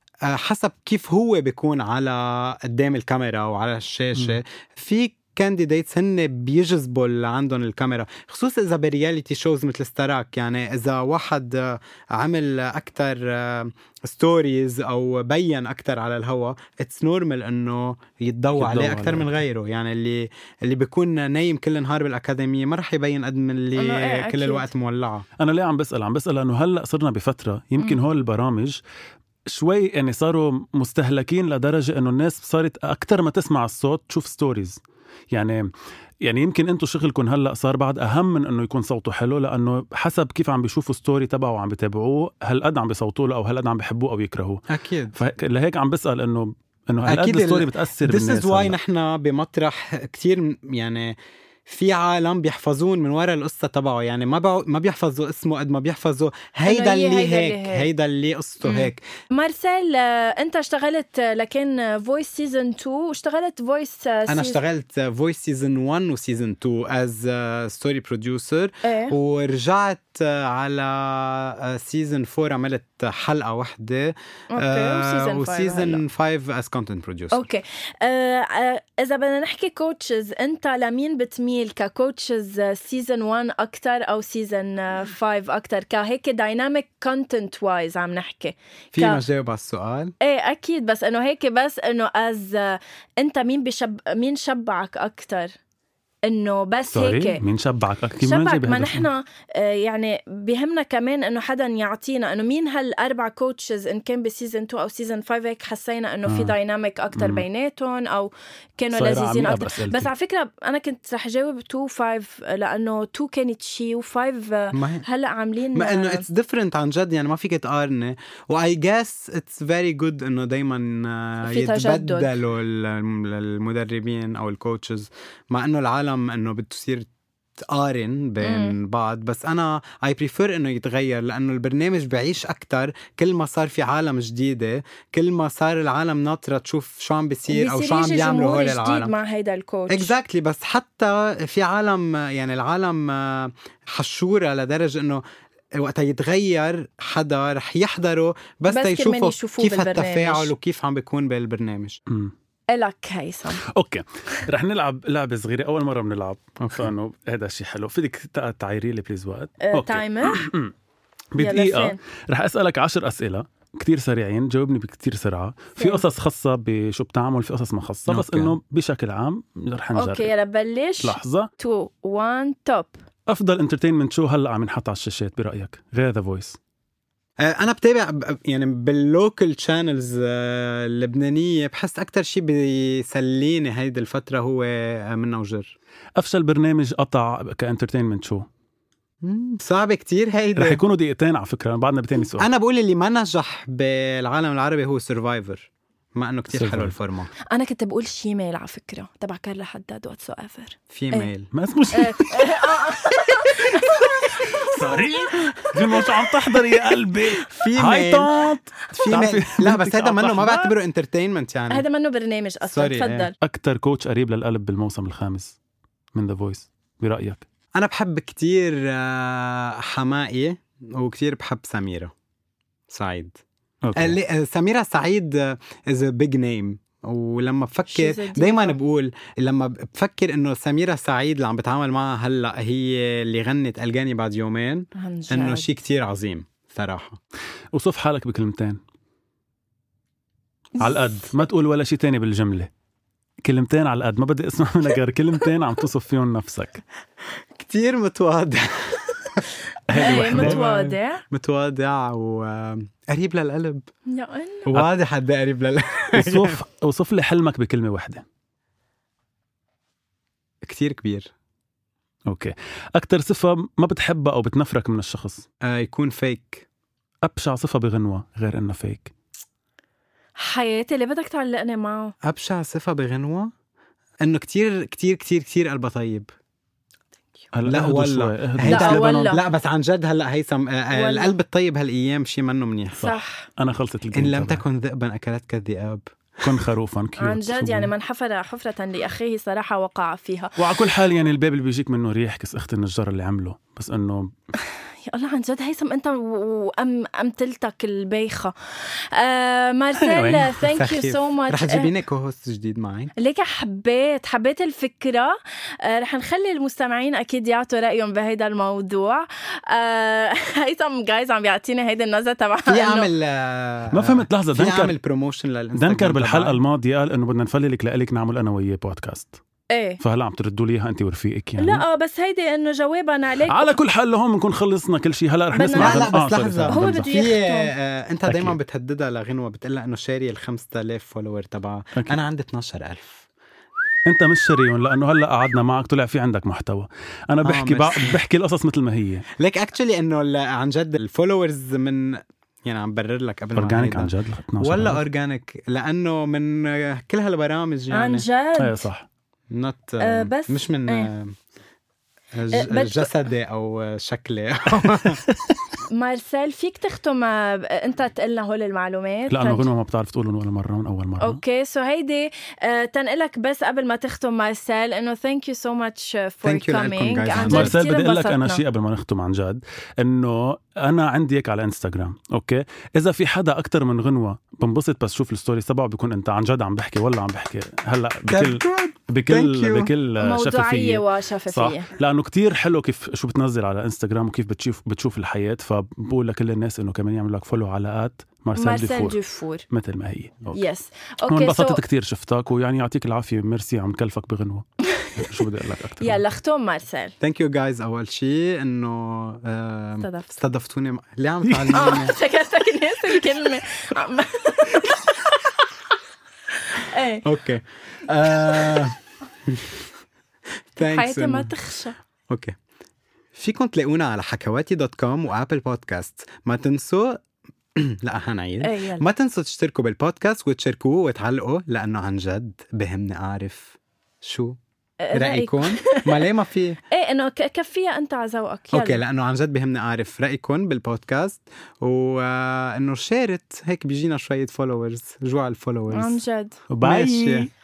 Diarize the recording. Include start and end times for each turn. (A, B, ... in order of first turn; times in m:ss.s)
0:00.2-0:25.2 A
0:18.6-0:19.3 B
0:23.8-0:24.7 C
0:25.4-0:28.8 B
0:29.5-0:34.8 B
0:35.3-0:35.7 B
0:36.2-0:44.6 B
0:44.7-0:45.2 A
0:45.1-0:48.8 B
0:47.0-0:51.2 A
0:51.7-0:59.0 A
0:56.6-0:57.9 C
0:58.6-1:04.6 C
1:04.3-1:17.4 A
1:08.8-1:09.1 C
1:14.5-1:16.0 C
1:17.3-1:29.2 C
1:28.9-1:30.1 A
1:30.2-1:35.5 C
1:36.2-1:37.4 C
1:36.9-1:39.1 B
1:38.2-1:56.2 C
1:46.3-1:46.5 B
1:47.2-1:47.4 B
1:48.9-1:50.1 B
1:54.7-1:55.0 A
1:55.7-2:19.1 A
2:01.4-2:02.3 C
2:08.4-2:08.8 C
2:17.5-2:20.1 C
2:19.9-2:25.2 A
2:25.7-2:32.0 A
2:28.7-2:30.5 C
2:32.7-2:33.6 C
2:33.7-2:40.7 B
2:36.6-2:36.9 A
2:39.6-2:40.4 C
2:41.3-2:50.3 B
2:41.4-2:42.0 C
2:45.8-2:46.0 C
2:48.1-2:48.5 A
2:50.0-2:53.0 C
2:51.0-2:51.5 B
2:53.3-2:56.6 B
2:57.4-3:05.7 A
3:06.2-3:08.5 B
3:09.2-3:10.8 A
3:10.6-3:12.5 B
3:12.4-3:17.3 A
3:16.5-3:16.9 B
3:17.5-3:21.3 C
3:20.9-3:21.5 A
3:21.5-3:22.8 B
3:21.9-3:25.0 C
3:24.6-3:30.7 B
3:27.5-3:28.3 A
3:28.9-3:31.8 A
3:31.7-3:33.3 C
3:32.6-3:33.3 A
3:33.4-3:35.6 B
3:36.1-3:37.4 B
3:37.8-3:42.1 A
3:42.9-3:43.4 A
3:43.8-3:44.2 B
3:43.9-3:57.2 A
3:47.9-3:48.7 C
3:54.9-3:55.7 C
3:57.7-3:58.8 B
4:00.8-4:02.7 B
4:03.4-4:06.8 B
4:07.6-4:09.4 A
4:09.9-4:10.6 B
4:09.9-4:11.2 C
4:10.0-4:13.9 A
4:14.1-4:14.6 C
4:14.6-4:16.6 A
4:16.1-4:18.2 B
4:20.6-4:21.3 A
4:22.3-4:25.4 B
4:25.6-4:26.6 A
4:27.2-4:29.1 B
4:30.4-4:32.1 C
4:32.2-4:33.5 A
4:34.2-4:36.3 A
4:37.5-4:39.4 B
4:37.6-4:43.1 A
4:38.6-4:39.4 C
4:40.9-4:41.3 C
4:43.0-4:44.6 B
4:43.0-4:43.5 C
4:44.1-4:46.1 A
4:46.4-4:47.9 B
4:47.2-4:50.6 C
4:50.6-4:54.3 B
4:55.1-5:01.9 C
5:00.0-5:00.6 B
5:00.7-5:03.1 A
5:03.2-5:13.1 C
5:12.7-5:16.6 A
5:13.9-5:14.9 B
5:15.7-5:19.4 B
5:19.7-5:20.0 C
5:20.0-5:21.8 B
5:21.6-5:23.7 C
5:23.5-5:27.1 B
5:25.5-5:26.1 C
5:25.8-5:33.2 A
5:26.7-5:27.7 C
5:28.3-5:28.6 B
5:34.0-5:39.2 B
5:37.4-5:38.2 A
5:39.4-5:48.2 A
5:43.6-5:45.0 B
5:47.9-5:48.9 C
5:48.6-5:49.0 B
5:49.5-5:51.4 A
5:50.0-5:51.1 C
5:52.3-5:55.2 A
5:52.5-5:53.1 C
5:55.3-5:55.6 B
5:55.9-5:59.7 C
5:59.3-6:01.4 B
6:01.2-6:08.6 C
6:06.4-6:07.7 A
6:07.4-6:29.2 B
6:18.3-6:19.9 A
6:20.2-6:21.9 C
6:28.6-6:29.6 C
6:29.7-6:30.6 B
6:30.5-6:31.8 C
6:31.3-6:36.2 B
6:34.9-6:35.1 C
6:36.0-6:37.1 C
6:37.2-6:42.1 A
6:41.4-6:42.0 B
6:41.7-6:45.7 C
6:46.5-6:47.2 C
6:47.2-6:49.9 A
6:48.3-6:48.8 C
6:50.8-6:51.5 A
6:50.8-6:52.0 C
6:52.3-6:52.6 A
6:53.3-6:57.2 A
6:57.7-7:04.6 A
6:58.6-6:59.0 C
7:05.0-7:06.2 C
7:05.1-7:06.8 A
7:06.9-7:09.0 C
7:08.7-7:16.2 A
7:15.9-7:16.6 C
7:16.7-7:17.5 B
7:16.8-7:17.5 A